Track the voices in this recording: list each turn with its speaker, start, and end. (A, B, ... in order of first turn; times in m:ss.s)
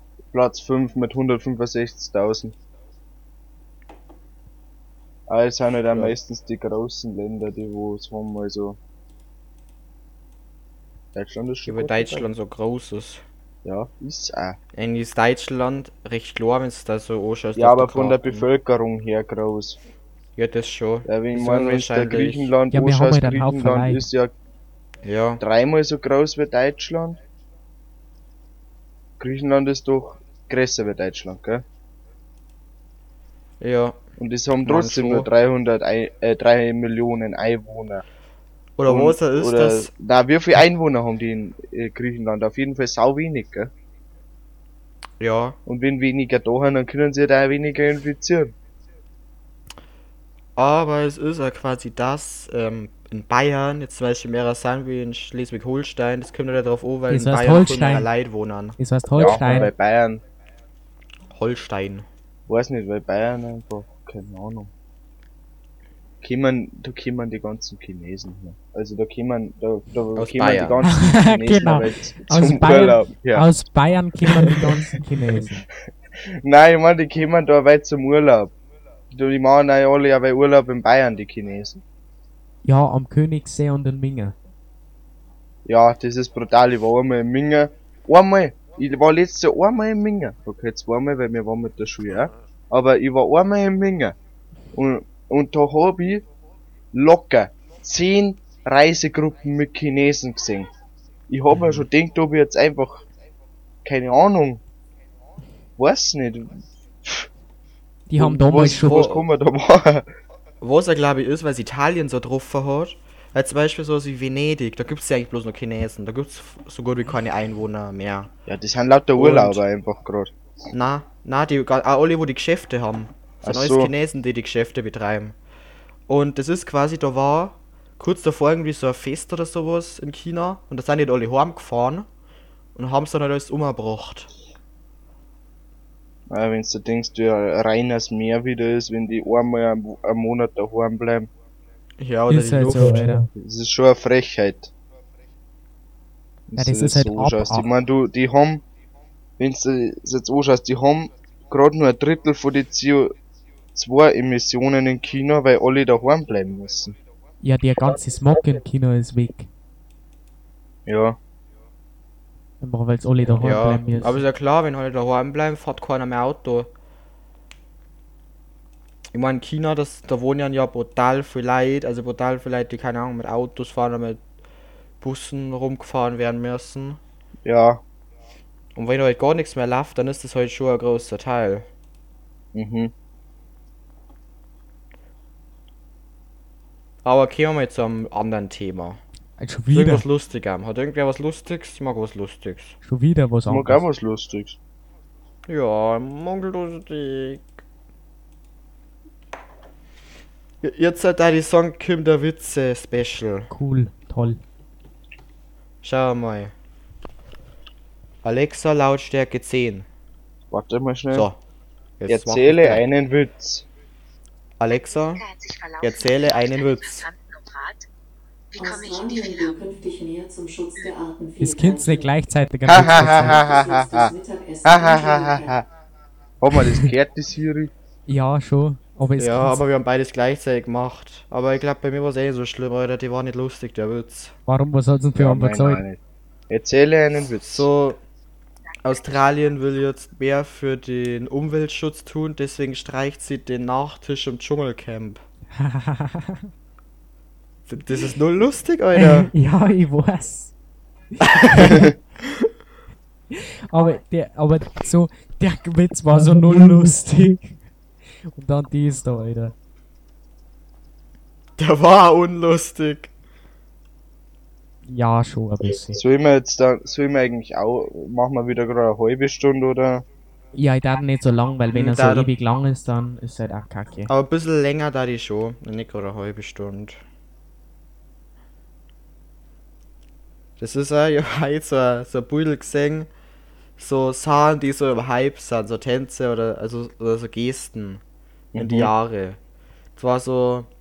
0:00.3-0:02.5 A
0:05.3-0:08.8 A
0:05.9-0:06.1 B
0:11.1-0:12.3 A
0:11.6-0:13.2 B
0:13.6-0:14.6 A
0:14.7-0:18.5 B
0:17.6-0:19.8 A
0:20.4-0:22.5 B
0:21.0-0:24.3 A
0:22.7-0:24.0 C
0:25.0-0:25.4 B
0:25.4-0:27.2 A
0:29.2-0:31.6 A
0:33.6-0:34.0 B
0:34.2-0:38.0 A
0:34.6-0:35.3 B
0:38.8-0:39.9 B
0:38.8-0:43.7 A
0:45.2-0:45.6 B
0:45.6-0:48.5 A
0:50.6-0:59.4 B
0:57.1-0:58.1 C
0:58.8-0:59.7 C
0:59.2-1:00.2 A
1:01.3-1:02.0 B
1:02.5-1:04.7 A
1:06.2-1:13.5 A
1:10.2-1:10.8 B
1:10.8-1:15.6 C
1:16.2-1:18.5 A
1:19.1-1:21.8 A
1:22.6-1:24.3 C
1:25.6-1:34.1 A
1:34.7-1:36.2 A
1:36.9-1:40.7 A
1:41.3-1:43.0 A
1:43.8-1:44.6 A
1:45.8-1:47.3 A
1:48.1-1:49.2 C
1:48.2-1:50.1 A
1:48.8-1:49.2 B
1:50.6-1:58.3 B
1:58.5-2:00.3 A
1:59.2-1:59.6 B
2:00.7-2:05.3 B
2:03.4-2:03.9 A
2:06.1-2:12.0 B
2:12.7-2:14.3 B
2:16.3-2:21.3 A
2:22.0-2:23.1 B
2:22.3-2:23.3 C
2:23.4-2:24.7 A
2:26.5-2:28.6 A
2:26.6-2:27.7 C
2:29.4-2:33.1 A
2:33.7-2:37.0 A
2:37.4-2:39.5 C
2:40.8-2:41.2 A
2:42.6-2:44.2 C
2:43.4-2:46.7 B
2:49.1-2:54.2 B
2:55.0-2:57.0 B
2:57.4-2:57.8 A
2:58.7-3:01.7 B
3:02.5-3:02.9 A
3:07.0-3:09.0 B
3:09.4-3:10.0 C
3:09.7-3:12.8 B
3:12.8-3:13.8 C
3:13.5-3:14.6 A
3:15.5-3:17.5 B
3:20.6-3:23.5 B
3:23.5-3:24.4 C
3:25.8-3:26.5 B
3:28.2-3:29.8 B
3:30.5-3:31.3 A
3:31.1-3:31.4 B
3:32.0-3:32.8 B
3:32.1-3:33.6 A
3:34.6-3:35.2 B
3:34.7-3:37.8 D
3:35.8-3:37.0 B
3:38.5-3:39.6 D
3:38.6-3:42.1 E
3:41.4-3:43.4 C
3:42.7-3:44.1 A
3:42.8-3:45.5 E
3:44.6-3:45.6 A
3:46.4-3:47.7 A
3:48.1-3:49.6 C
3:49.2-3:54.4 B
3:54.5-3:55.8 C
3:55.2-3:57.7 A
3:57.4-3:58.0 B
3:58.8-4:05.2 B
4:05.5-4:06.5 C
4:07.7-4:09.3 B
4:08.9-4:10.5 C
4:11.1-4:11.9 C
4:11.2-4:12.4 B
4:13.3-4:17.6 C
4:18.3-4:19.5 C
4:21.6-4:23.1 B
4:24.9-4:26.0 C
4:25.9-4:30.0 A
4:30.5-4:34.1 C
4:31.7-4:32.3 B
4:34.1-4:37.0 B
4:40.6-4:43.1 B
4:43.8-4:48.0 B
4:48.5-4:48.9 A
4:48.6-4:49.4 B
4:50.0-4:50.7 B